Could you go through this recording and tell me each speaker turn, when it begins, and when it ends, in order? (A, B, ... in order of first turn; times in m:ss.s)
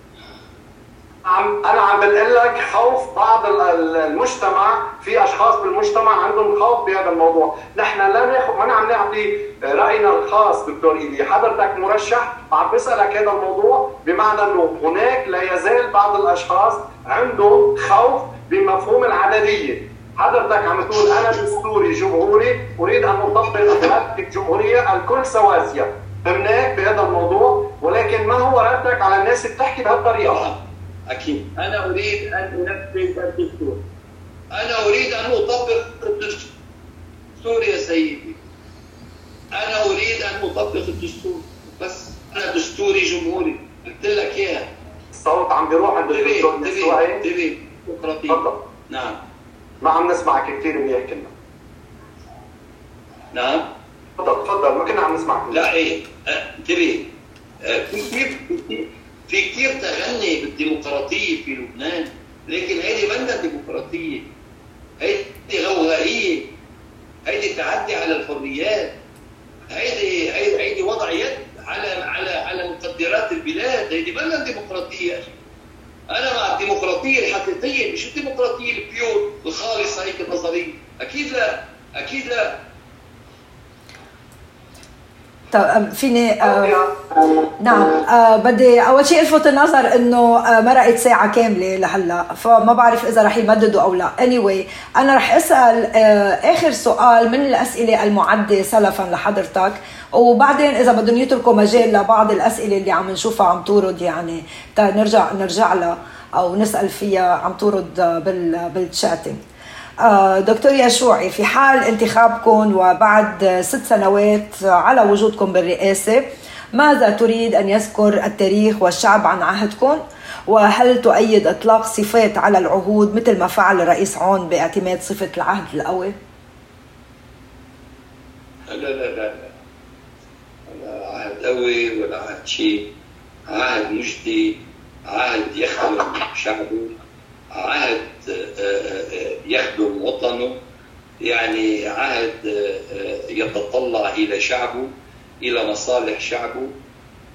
0:01.2-0:30.5 A
0:30.2-0:33.8 B
0:34.5-0:36.5 B
0:37.4-0:38.4 B
0:39.5-0:44.7 B
0:45.2-0:47.2 A
0:46.1-0:49.2 B
0:48.3-0:48.6 A
0:49.8-0:51.3 A
0:53.3-0:53.7 B
0:54.2-0:55.7 A
0:55.5-0:57.1 B
0:57.6-1:04.2 B
1:05.0-1:06.5 B
1:07.3-1:09.0 B
1:09.7-1:15.3 B
1:16.1-1:22.6 B
1:25.5-1:26.8 C
1:26.4-1:27.3 A
1:27.6-1:49.4 C
1:50.0-2:06.1 C
2:08.7-2:09.5 B
2:10.7-2:12.9 B
2:13.5-2:17.0 B
2:17.5-2:20.6 B
2:21.2-2:26.7 B